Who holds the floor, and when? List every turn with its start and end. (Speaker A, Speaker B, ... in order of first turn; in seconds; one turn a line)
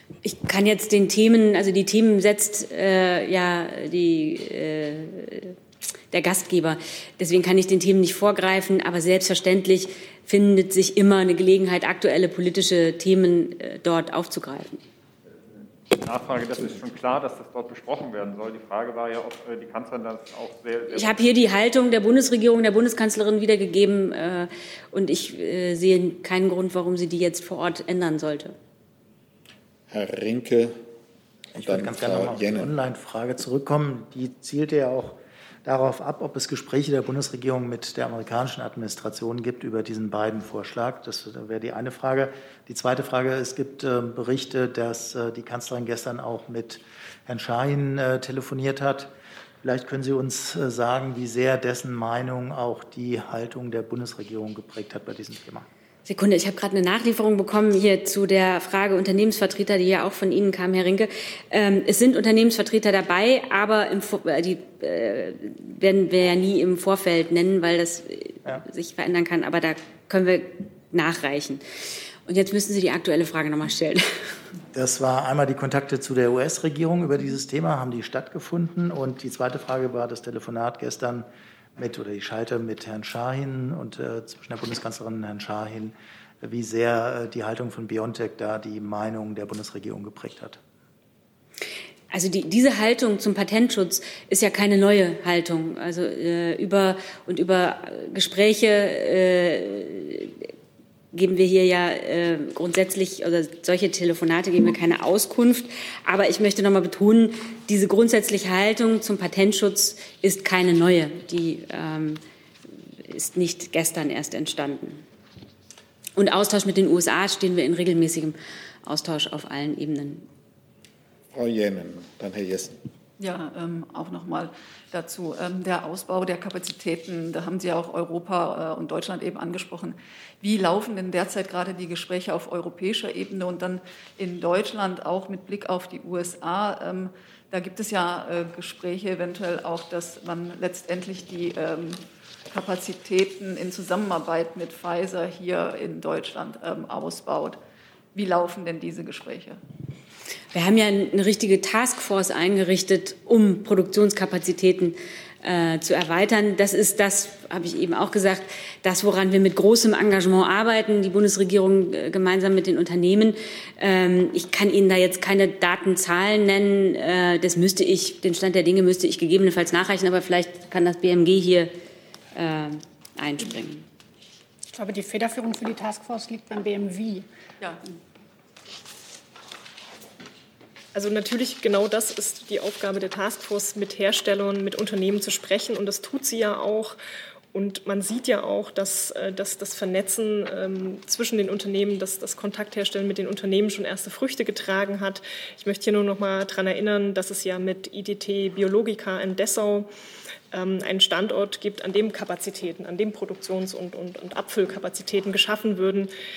Speaker A: 0.2-5.5
Speaker A: 6.1-14.8
Speaker B: 15.9-21.1
Speaker A: 20.9-28.5
Speaker C: 29.9-30.8
Speaker D: 31.6-49.1
Speaker C: 31.6-32.7
Speaker D: 49.6-55.7
Speaker A: 56.0-71.6
Speaker A: 72.2-74.0
Speaker D: 74.7-90.6
Speaker A: 92.1-100.5
Speaker A: 101.1-112.2
Speaker A: 113.1-115.0
Speaker A: 116.2-120.3
Speaker C: 121.3-122.7
Speaker E: 123.2-147.6
Speaker E: 148.1-149.6
Speaker A: 150.5-171.7
Speaker A: 172.3-173.8
Speaker F: 174.7-177.2
Speaker G: 180.9-187.0
Speaker G: 187.5-199.9
Speaker G: 200.5-206.1